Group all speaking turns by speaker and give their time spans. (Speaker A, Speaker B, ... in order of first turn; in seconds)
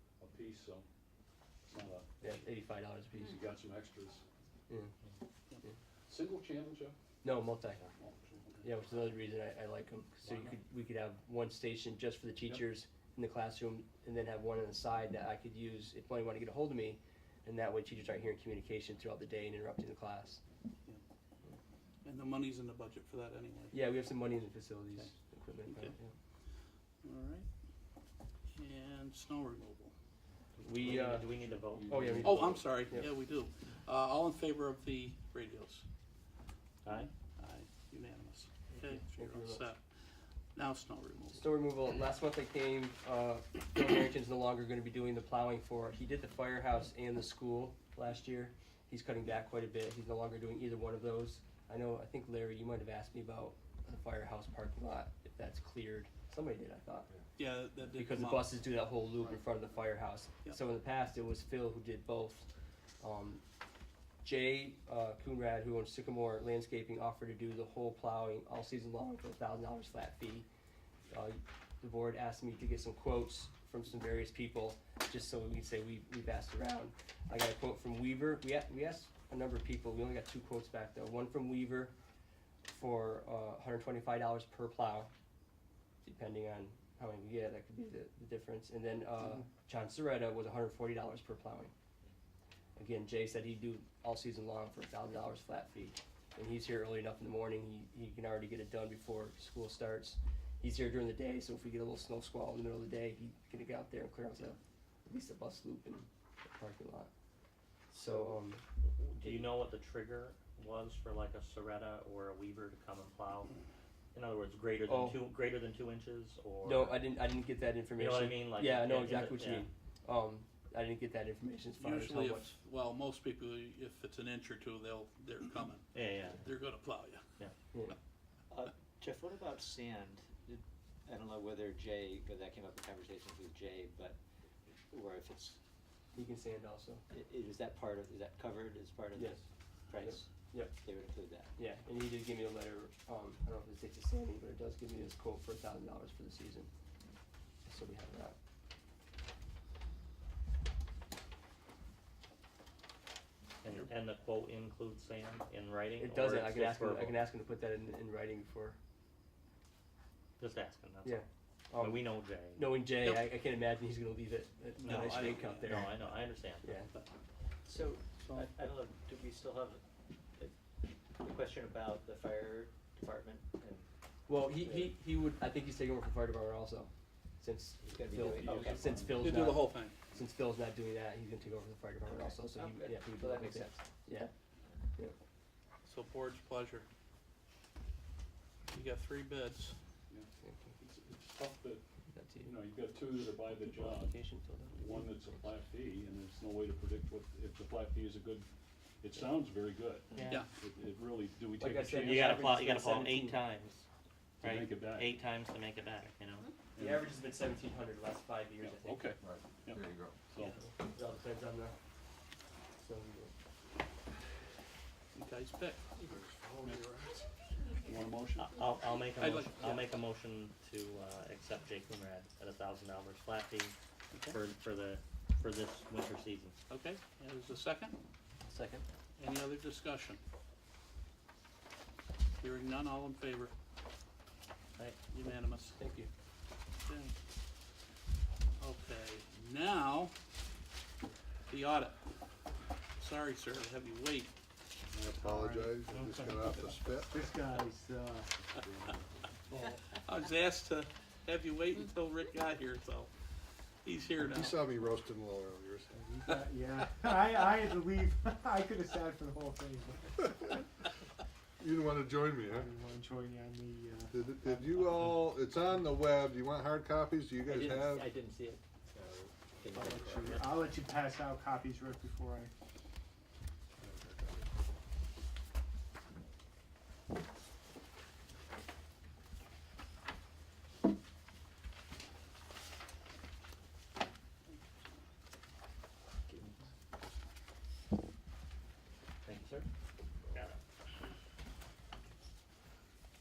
Speaker A: 0.2-0.9, 1.7-2.1, 3.2-4.2, 6.1-7.0, 8.0-8.7, 10.3-10.5, 30.8-32.6, 178.0-179.6, 190.8-191.8, 192.4-194.2, 194.7-198.5, 199.0-202.5, 204.4-205.1, 206.8-207.1, 208.6-210.6, 216.6-217.1, 217.8-218.7
Speaker B: 2.2-3.4, 7.2-7.8, 8.6-20.4, 23.7-26.1, 30.6-31.3, 31.8-33.1, 38.8-39.7, 41.3-57.1, 57.9-62.5, 63.0-63.4, 64.2-70.5, 71.1-81.9, 82.7-85.1, 86.0-91.7, 92.8-107.1, 107.9-108.6, 109.2-109.5, 114.9-115.2, 116.6-122.6, 136.1-137.0, 139.1-139.4, 139.9-140.8, 141.6-146.7, 147.7-148.4, 156.0-158.8, 161.0-166.0, 166.6-166.9, 174.3-184.3, 190.4-190.8, 192.1-192.6, 193.5-195.4, 200.1-200.4, 201.6-203.4, 206.8-209.1, 210.6-211.8, 212.8-213.3
Speaker C: 22.0-23.9, 25.7-26.0, 27.0-27.5, 28.6-29.9, 32.2-35.9, 36.9-39.8, 40.5-41.5, 57.4-58.5, 121.8-127.2, 164.8-165.9, 168.2-168.5, 179.2-179.9, 185.8-186.9, 188.7-189.8, 215.2-215.8, 219.2-219.9, 224.1-224.4, 226.7-227.9, 229.2-230.2, 232.4-233.5, 235.1-235.9, 236.8-237.2, 238.6-240.1, 241.5-242.0, 243.0-244.3, 249.9-253.1, 253.8-254.6, 256.3-256.8, 284.5-285.0
Speaker D: 30.8-32.0, 36.9-37.1, 108.1-113.5, 114.1-117.0, 118.0-119.7, 125.9-126.5, 153.6-157.2, 160.4-161.2, 161.8-162.8, 164.8-166.8, 202.0-203.8, 204.4-206.5, 218.4-223.8, 224.3-226.6, 289.2-289.7, 290.3-290.6
Speaker E: 128.5-134.2, 134.9-135.6, 137.1-141.5, 167.7-169.8, 171.2-173.9, 174.6-174.9, 177.8-179.1, 182.1-183.8, 228.4-228.9, 235.8-236.1, 267.5-270.4
Speaker F: 244.9-247.4, 254.2-255.9, 260.2-260.6, 261.6-262.7, 264.1-268.1, 273.9-274.2
Speaker G: 245.0-248.4, 249.5-249.8, 255.9-260.1, 262.4-264.8, 269.7-272.5